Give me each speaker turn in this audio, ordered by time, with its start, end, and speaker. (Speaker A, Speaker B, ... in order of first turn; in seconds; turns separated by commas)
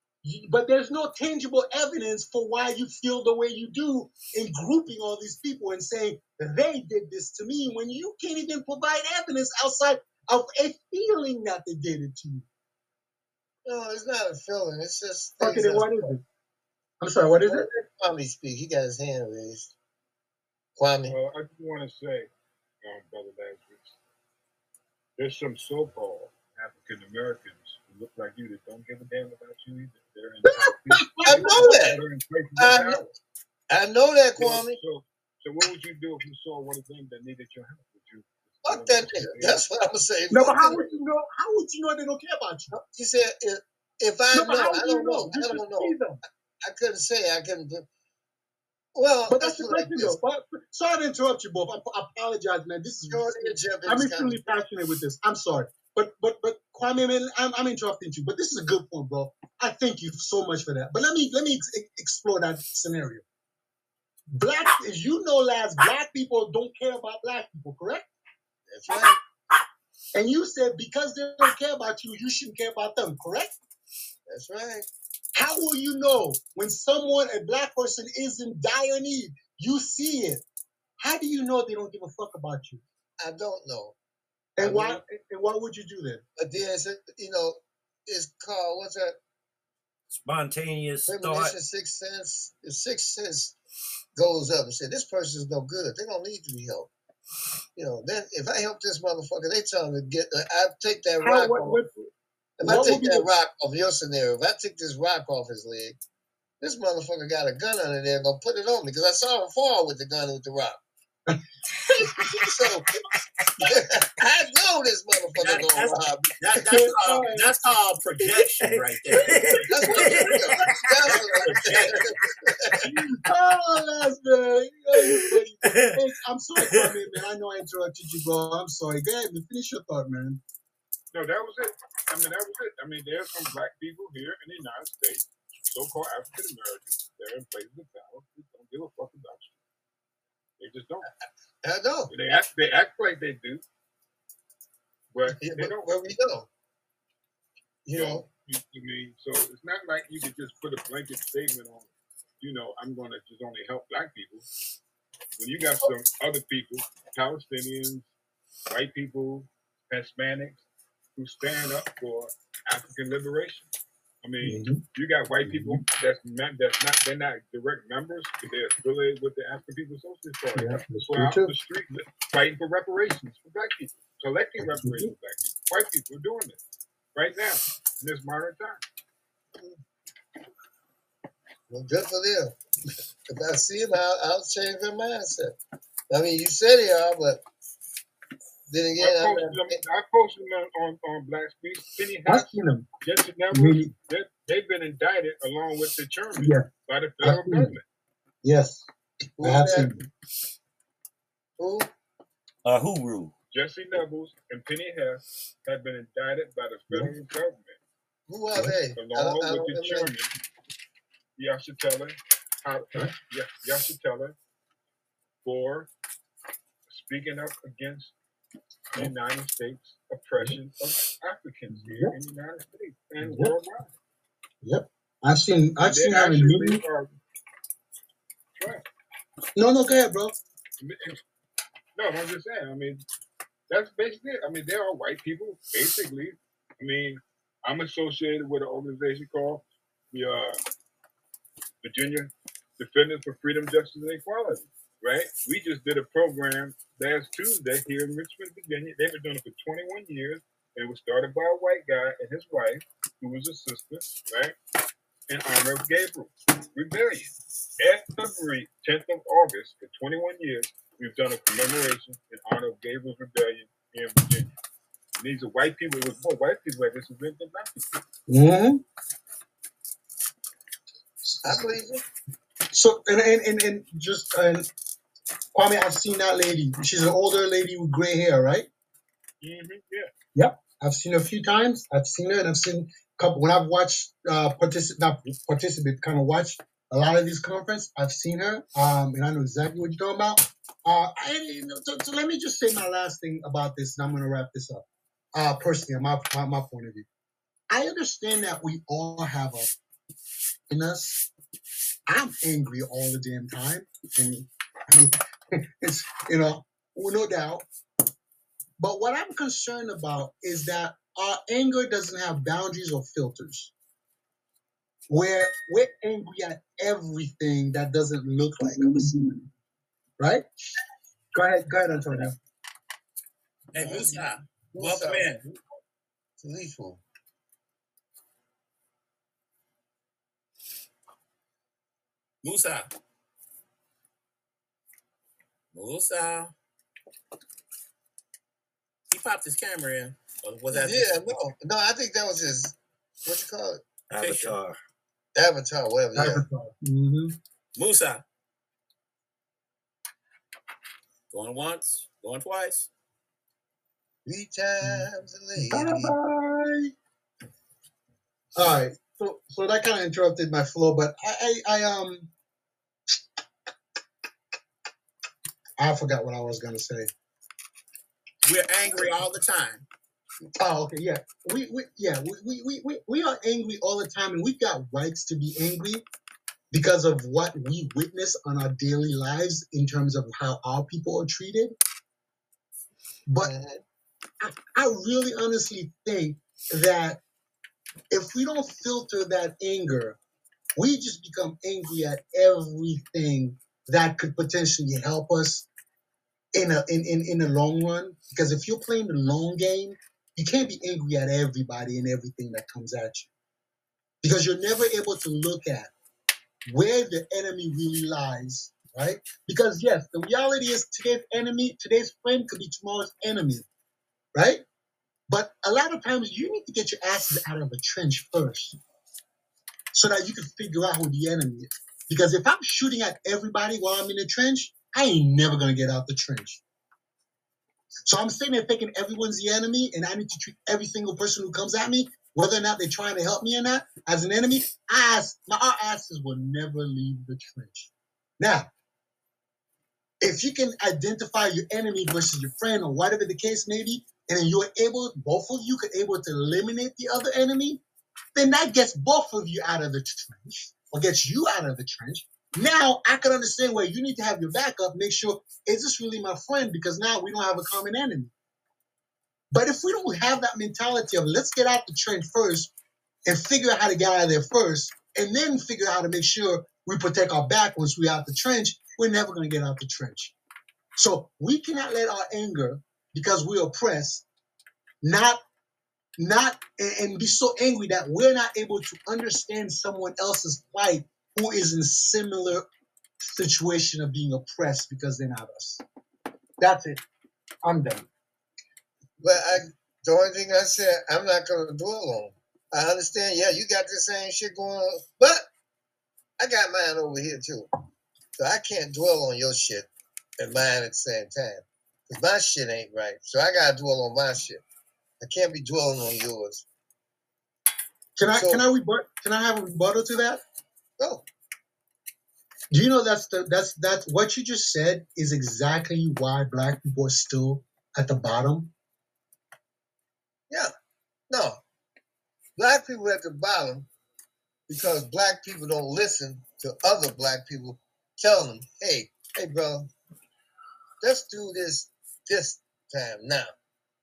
Speaker A: 0.2-12.4, Speaker B: 13.7-16.1, Speaker A: 15.4-16.2, Speaker A: 17.0-17.7, Speaker B: 17.5-19.7, Speaker B: 20.8-21.1, Speaker C: 21.1-22.3, Speaker C: 22.8-24.0, Speaker C: 25.2-33.0, Speaker A: 30.4-31.7, Speaker B: 31.2-32.0, Speaker B: 32.6-33.1, Speaker B: 33.7-34.8, Speaker C: 34.4-39.6, Speaker B: 38.6-40.9, Speaker A: 40.3-42.7, Speaker B: 42.7-45.9, Speaker A: 44.3-46.2, Speaker B: 46.6-47.9, Speaker B: 48.9-50.1, Speaker A: 49.3-63.2, Speaker B: 53.1-54.5, Speaker A: 64.3-68.1, Speaker B: 68.7-69.2, Speaker A: 70.1-73.5, Speaker B: 74.3-74.9, Speaker A: 75.3-80.4, Speaker A: 81.0-82.8, Speaker B: 83.2-84.0, Speaker A: 84.6-86.2, Speaker B: 84.6-85.0, Speaker B: 86.4-89.2, Speaker D: 90.1-91.5, Speaker B: 91.1-93.5, Speaker B: 94.2-96.9, Speaker B: 97.8-101.8, Speaker A: 101.2-103.3, Speaker B: 102.6-106.0, Speaker B: 106.6-110.8, Speaker A: 111.3-112.6, Speaker B: 111.9-112.8, Speaker B: 113.6-116.4, Speaker E: 115.4-119.3, Speaker A: 116.6-117.5, Speaker D: 119.1-120.7, Speaker A: 119.2-121.2, Speaker B: 119.7-122.8, Speaker E: 121.2-122.1, Speaker A: 122.8-130.4, Speaker D: 125.0-126.0, Speaker D: 126.6-126.9, Speaker C: 131.1-139.6, Speaker C: 140.6-141.1, Speaker B: 141.6-142.1, Speaker C: 142.1-143.6, Speaker C: 145.1-145.9, Speaker B: 145.3-146.5, Speaker B: 147.8-148.2, Speaker C: 147.9-154.5, Speaker C: 155.4-158.1, Speaker C: 158.7-163.7, Speaker C: 164.2-176.6, Speaker A: 164.4-164.8, Speaker A: 165.4-165.8, Speaker A: 170.5-171.5, Speaker A: 174.6-175.1, Speaker C: 177.1-178.8, Speaker B: 181.7-182.6, Speaker B: 183.3-185.6, Speaker B: 186.1-187.4, Speaker B: 188.7-189.8, Speaker C: 189.0-197.8, Speaker A: 192.2-192.9, Speaker A: 193.5-193.9, Speaker A: 196.3-196.7, Speaker A: 197.2-197.8, Speaker A: 198.4-198.9, Speaker B: 199.4-200.0, Speaker A: 199.4-200.0, Speaker B: 201.6-201.9, Speaker D: 202.6-203.3, Speaker C: 203.5-207.8, Speaker B: 208.3-210.1, Speaker C: 208.9-210.3, Speaker C: 211.4-214.3, Speaker C: 215.4-215.9, Speaker C: 216.9-218.1, Speaker C: 218.9-223.9, Speaker A: 221.7-222.1, Speaker A: 223.2-223.5, Speaker A: 224.6-226.8, Speaker C: 225.8-227.1, Speaker C: 228.6-228.8, Speaker A: 229.6-230.3, Speaker C: 230.8-231.2, Speaker C: 231.9-233.0, Speaker C: 233.7-240.6, Speaker C: 241.8-254.6, Speaker C: 255.3-264.5, Speaker C: 265.2-267.7, Speaker A: 268.3-268.8, Speaker B: 271.4-272.0, Speaker A: 272.7-274.7, Speaker A: 275.5-278.7, Speaker C: 279.4-280.1, Speaker A: 280.3-297.1, Speaker A: 297.7-299.7, Speaker A: 300.7-301.2, Speaker A: 302.1-305.2, Speaker A: 305.8-307.6, Speaker A: 308.8-313.7, Speaker A: 315.1-319.4, Speaker B: 318.6-319.0, Speaker A: 320.2-320.4, Speaker A: 321.3-322.4, Speaker E: 323.7-325.4, Speaker B: 323.8-325.6, Speaker B: 326.4-327.0, Speaker E: 332.4-332.9, Speaker E: 335.7-336.5, Speaker E: 339.1-341.5, Speaker B: 340.7-343.8, Speaker D: 344.1-344.8, Speaker E: 344.2-344.5, Speaker B: 345.3-346.4, Speaker A: 346.1-347.4, Speaker E: 347.8-348.2, Speaker E: 351.3-352.9, Speaker B: 354.2-356.1, Speaker A: 355.6-356.9, Speaker A: 358.6-362.3, Speaker E: 358.6-358.8, Speaker A: 365.8-367.1, Speaker E: 368.4-369.8, Speaker A: 370.6-376.0, Speaker A: 376.7-381.7, Speaker A: 383.3-383.5, Speaker B: 383.4-383.8, Speaker A: 384.4-387.2, Speaker A: 388.1-390.2, Speaker A: 390.8-395.7, Speaker A: 396.5-403.3, Speaker A: 404.2-405.9, Speaker A: 406.7-413.6, Speaker A: 414.3-414.6, Speaker A: 415.3-418.8, Speaker A: 419.9-426.6, Speaker A: 428.1-438.7, Speaker A: 440.2-447.8, Speaker A: 448.3-458.3, Speaker A: 459.5-462.7, Speaker A: 463.2-470.4, Speaker A: 470.9-474.2, Speaker A: 475.0-475.4, Speaker A: 476.2-482.6, Speaker A: 483.3-485.8, Speaker A: 486.6-487.0, Speaker A: 487.6-488.1, Speaker B: 489.2-495.5, Speaker B: 496.4-497.7, Speaker B: 498.4-504.6, Speaker B: 505.2-506.6, Speaker A: 508.2-510.4, Speaker B: 508.4-508.6, Speaker B: 511.0-511.2, Speaker A: 512.7-518.7, Speaker B: 521.3-521.6, Speaker B: 522.6-523.9, Speaker B: 524.7-529.9, Speaker B: 531.0-533.5